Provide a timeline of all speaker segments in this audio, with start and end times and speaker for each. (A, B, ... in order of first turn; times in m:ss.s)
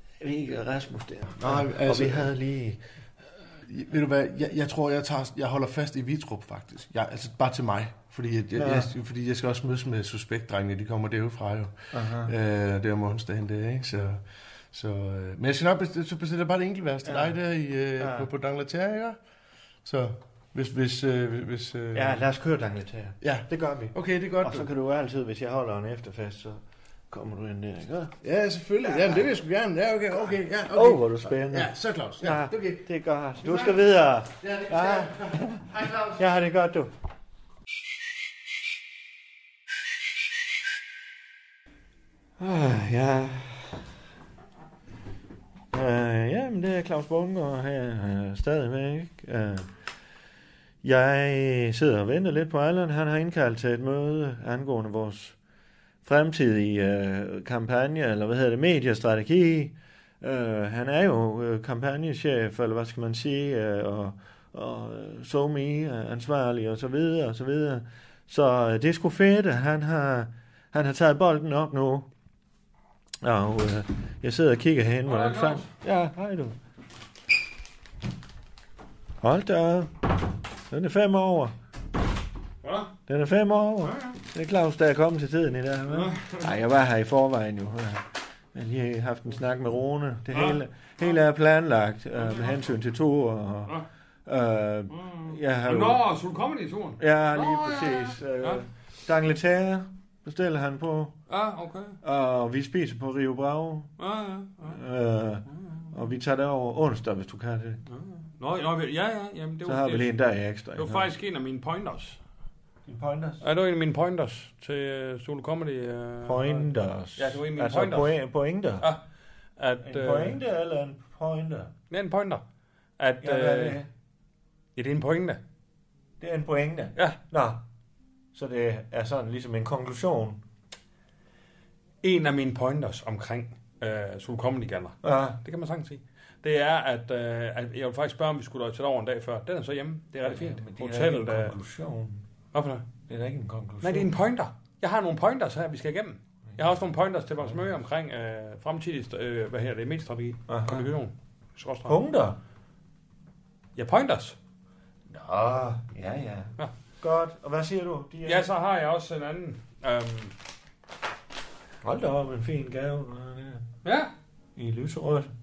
0:00.2-0:02.8 A
0:01.4-0:02.3 B
0:03.7-0:19.2 B
0:08.6-0:08.9 A
0:11.9-0:12.3 A
0:17.0-0:17.4 A
0:18.0-0:18.3 A
0:19.8-0:22.2 B
0:21.9-0:28.1 A
0:23.2-0:24.7 B
0:28.2-0:32.8 B
0:28.8-0:29.3 A
0:30.7-0:36.9 A
0:33.4-0:33.8 B
0:34.4-0:36.4 B
0:42.4-0:43.9 A
0:45.7-0:49.7 A
0:50.8-0:55.4 A
0:56.0-1:12.1 A
1:13.2-1:16.6 A
1:15.0-1:15.7 C
1:19.2-1:20.1 A
1:20.7-1:21.5 A
1:22.6-1:22.9 C
1:23.1-1:36.0 A
1:23.8-1:24.2 C
1:25.9-1:26.5 C
1:30.3-1:30.6 C
1:32.2-1:32.5 C
1:34.9-1:38.6 C
1:37.0-1:41.2 A
1:41.3-1:42.0 C
1:42.0-1:43.9 A
1:44.0-1:44.8 C
1:44.6-1:47.8 A
1:45.5-1:45.9 C
1:47.9-1:50.1 C
1:49.6-1:51.1 A
1:50.7-1:52.2 C
1:52.8-1:53.4 A
1:53.4-1:58.1 C
1:56.2-1:58.9 A
1:59.6-2:00.4 C
1:59.8-2:01.7 A
2:01.9-2:02.4 C
2:03.0-2:03.8 C
2:03.2-2:03.9 A
2:04.8-2:05.4 C
2:06.2-2:07.6 A
2:08.3-2:10.4 A
2:12.0-2:21.6 C
2:15.0-2:15.4 A
2:20.2-2:22.2 A
2:22.5-2:22.9 C
2:23.1-2:24.1 A
2:23.8-2:32.0 C
2:30.5-2:30.9 A
2:31.9-2:32.4 A
2:33.8-2:34.4 C
2:35.1-2:38.5 A
2:38.2-2:40.3 C
2:41.8-2:43.6 A
2:43.8-2:44.1 C
2:44.6-2:45.3 A